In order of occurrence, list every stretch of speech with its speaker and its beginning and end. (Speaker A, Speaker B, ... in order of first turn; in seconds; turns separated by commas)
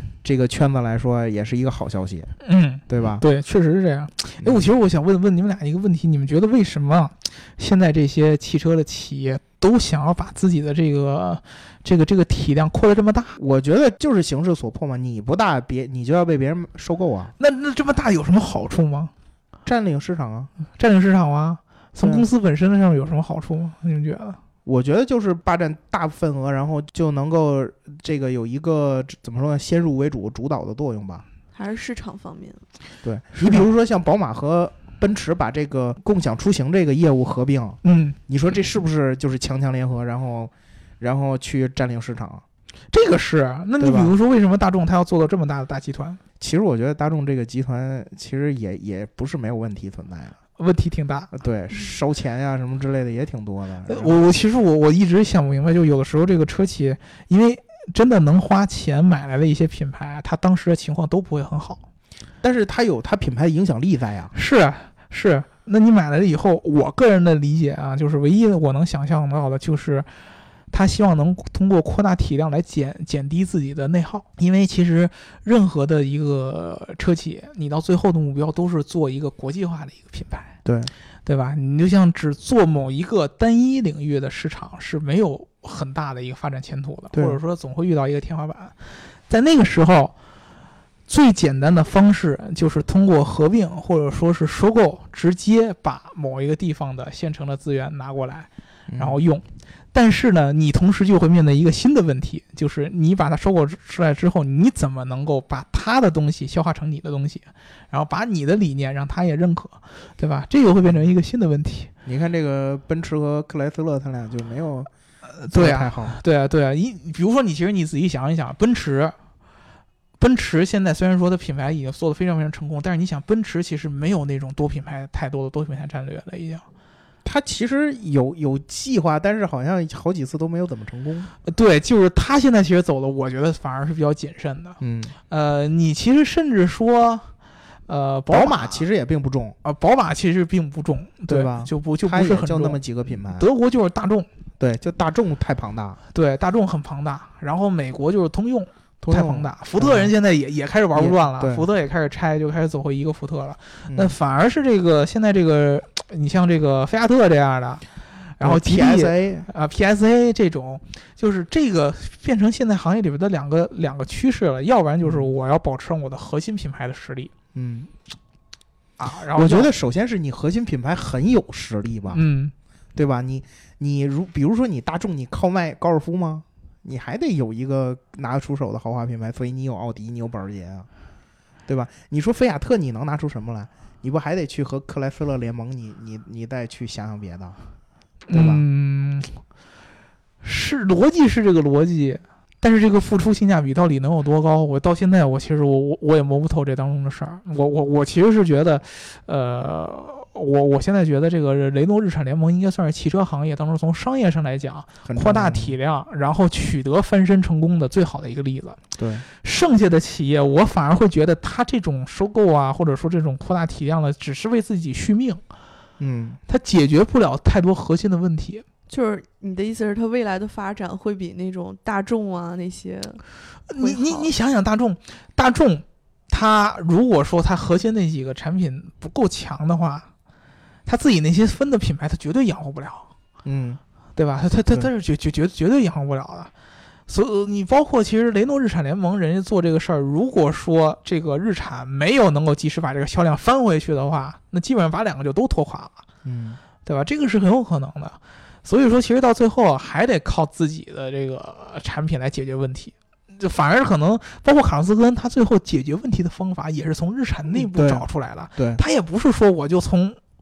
Speaker A: 0.2-2.3, Speaker B: 2.4-13.3, Speaker A: 2.9-3.2, Speaker A: 4.4-4.7, Speaker A: 13.4-17.3, Speaker B: 17.4-19.1, Speaker A: 19.6-20.5, Speaker B: 20.8-24.4, Speaker A: 22.0-22.3, Speaker A: 24.6-31.2, Speaker C: 31.5-32.6, Speaker A: 33.0-42.4, Speaker B: 33.3-33.7, Speaker B: 37.8-38.2, Speaker B: 42.9-46.2, Speaker A: 43.8-44.1, Speaker A: 46.4-50.4, Speaker B: 50.6-51.3, Speaker A: 51.3-54.2, Speaker B: 53.9-61.8, Speaker A: 62.4-64.3, Speaker B: 64.3-70.1, Speaker B: 70.7-80.5, Speaker A: 80.6-80.9, Speaker B: 81.2-88.7, Speaker A: 87.1-87.4, Speaker B: 89.3-90.1, Speaker B: 91.1-111.9, Speaker A: 98.9-99.2, Speaker A: 112.0-114.9, Speaker B: 115.4-119.1, Speaker A: 115.5-116.2, Speaker B: 120.2-126.6, Speaker A: 127.2-131.3, Speaker B: 131.5-134.8, Speaker A: 134.8-135.1, Speaker B: 135.3-137.3, Speaker B: 137.9-138.8, Speaker A: 138.3-139.6, Speaker B: 139.6-142.8, Speaker A: 141.3-143.5, Speaker B: 143.3-144.3, Speaker A: 144.6-146.0, Speaker B: 146.1-157.8, Speaker A: 149.0-150.1, Speaker A: 150.9-151.6, Speaker A: 153.9-154.1, Speaker B: 158.4-167.3, Speaker A: 158.4-159.5, Speaker A: 167.5-167.9, Speaker B: 169.0-169.7, Speaker A: 169.3-172.2, Speaker B: 172.1-172.5, Speaker A: 172.9-180.9, Speaker A: 181.7-187.6, Speaker A: 188.3-188.6, Speaker B: 188.3-189.4, Speaker B: 190.4-208.8, Speaker A: 205.1-205.8, Speaker A: 209.0-209.2, Speaker B: 209.4-215.4, Speaker A: 216.0-216.4, Speaker B: 216.5-218.6, Speaker C: 218.9-224.3, Speaker B: 223.7-230.1, Speaker B: 230.8-233.1, Speaker A: 233.4-233.8, Speaker B: 234.2-236.5, Speaker B: 237.1-246.0, Speaker A: 246.2-246.6, Speaker B: 246.8-260.2, Speaker A: 257.5-258.8